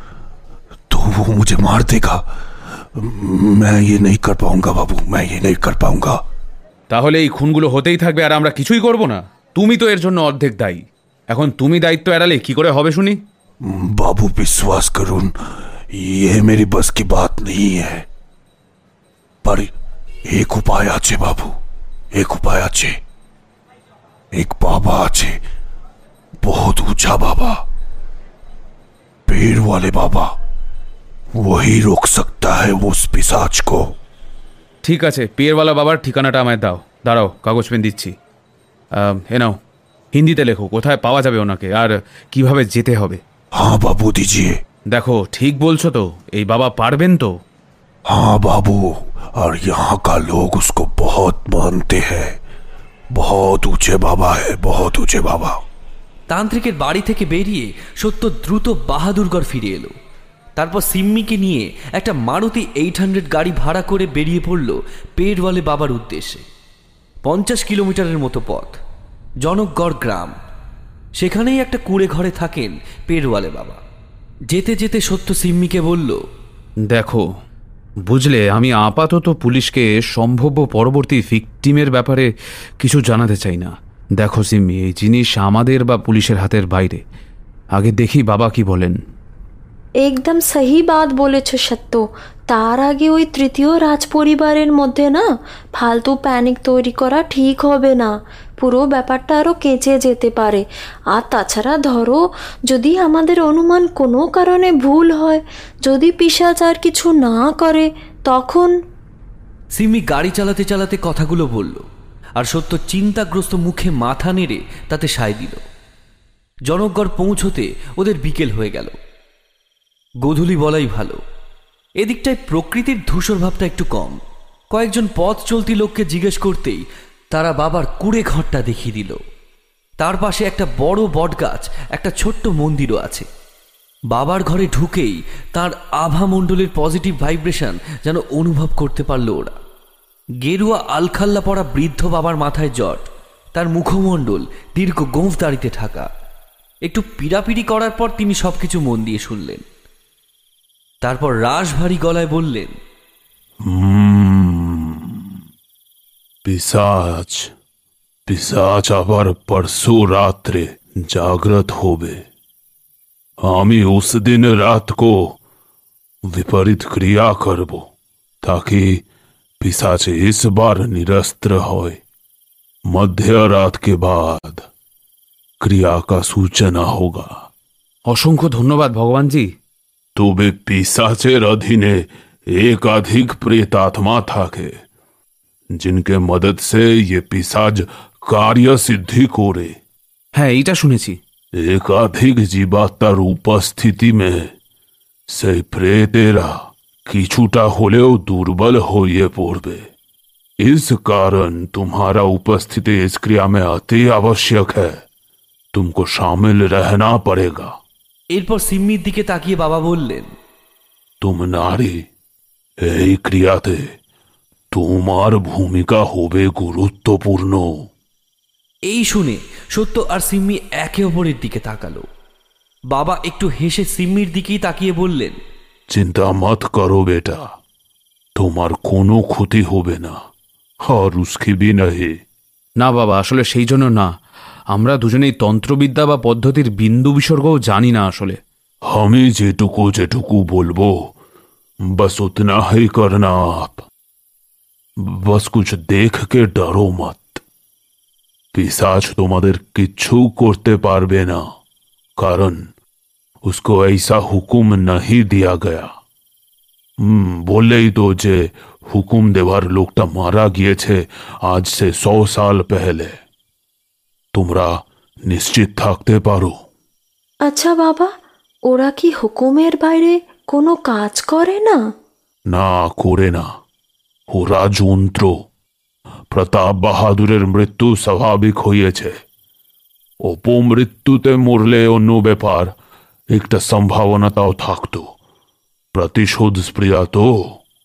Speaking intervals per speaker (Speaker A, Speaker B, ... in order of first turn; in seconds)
Speaker A: 0.9-2.2, 2.9-6.2, 13.6-15.3, 15.9-18.0, 19.4-19.7, 20.3-21.5, 22.1-23.0, 24.3-25.4, 26.4-27.6, 29.3-30.3, 31.4-33.9, 43.5-44.6, 48.1-52.4, 53.1-55.6
Speaker B: 6.9-13.2, 34.8-38.1, 38.9-39.6, 40.1-43.2, 44.9-47.4, 76.9-77.2, 78.1-82.3, 82.8-87.0, 87.7-89.0, 178.1-179.5, 190.4-191.2, 232.8-234.1, 234.7-238.4
Speaker C: 56.3-59.9, 60.5-66.4, 67.2-68.8, 69.4-70.3, 71.2-73.8, 74.5-76.2, 109.8-111.8, 112.4-115.6, 116.7-118.9, 120.2-121.2, 122.0-124.2, 124.7-129.2, 130.0-133.3, 134.1-139.6, 140.4-146.1, 146.8-149.6, 151.0-152.8, 208.3-210.3, 218.9-222.1, 222.9-225.4
Speaker D: 90.0-95.3, 95.8-108.7, 267.4-268.1, 268.7-271.8
Speaker E: 153.7-155.4, 156.4-157.5, 158.3-162.2, 163.4-165.4, 166.3-167.9, 168.4-169.0, 169.6-172.0, 172.9-174.7, 175.6-177.3, 180.2-182.0, 182.6-184.7, 185.8-189.8, 191.6-194.5, 195.3-199.9, 200.6-205.0, 205.7-207.7, 211.2-212.1, 212.8-213.9, 214.7-217.7, 225.9-227.5, 228.4-230.2, 230.9-232.2, 238.9-240.9, 242.0-243.8, 245.0-247.4, 248.5-251.4, 252.2-252.6, 253.4-255.9, 257.0-263.1, 264.3-266.6, 272.5-273.5, 274.3-275.3, 276.3-279.1, 280.3-282.7, 283.3-285.1, 285.9-287.3